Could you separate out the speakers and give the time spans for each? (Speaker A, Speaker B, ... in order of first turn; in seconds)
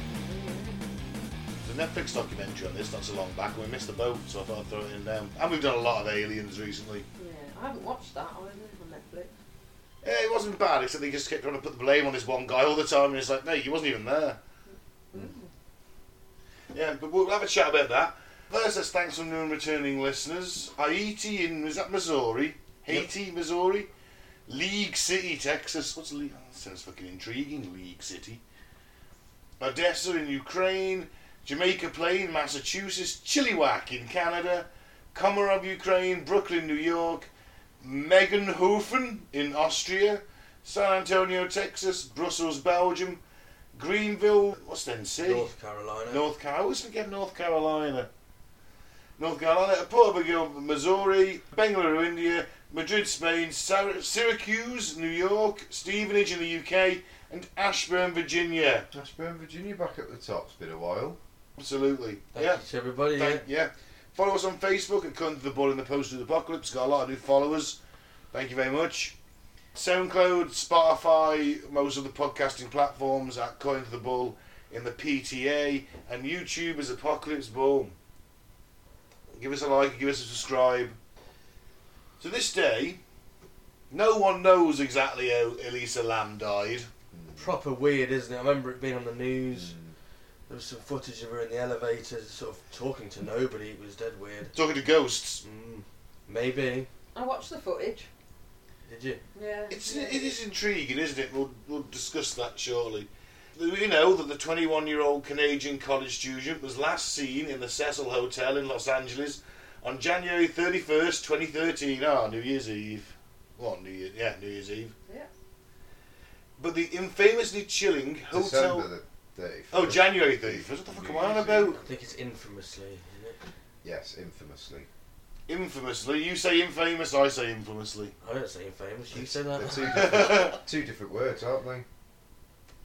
Speaker A: 0.3-0.8, 7.2-9.3, 14.7-15.5, 97.1-98.1, 99.3-100.2
Speaker B: 1.6-7.1, 10.0-14.4, 16.7-23.9, 24.5-28.4, 29.6-37.3, 37.8-43.2, 43.8-45.5, 46.1-48.1, 49.2-58.9, 61.6-62.6, 63.1-67.8, 68.3-69.2, 69.8-77.9, 79.3-81.0, 82.2-83.0, 83.9-86.9, 94.5-95.4, 99.7-114.9, 116.6-118.9, 119.7-121.8, 125.5-128.1, 129.9-130.6
Speaker C: 45.2-46.2, 62.3-63.4, 87.4-89.8, 90.5-94.5, 95.4-96.9, 98.9-99.2, 121.7-123.4, 128.2-130.2
Speaker D: 58.9-61.2, 87.1-87.6, 89.5-90.0, 118.3-121.8, 123.8-124.9, 129.1-131.9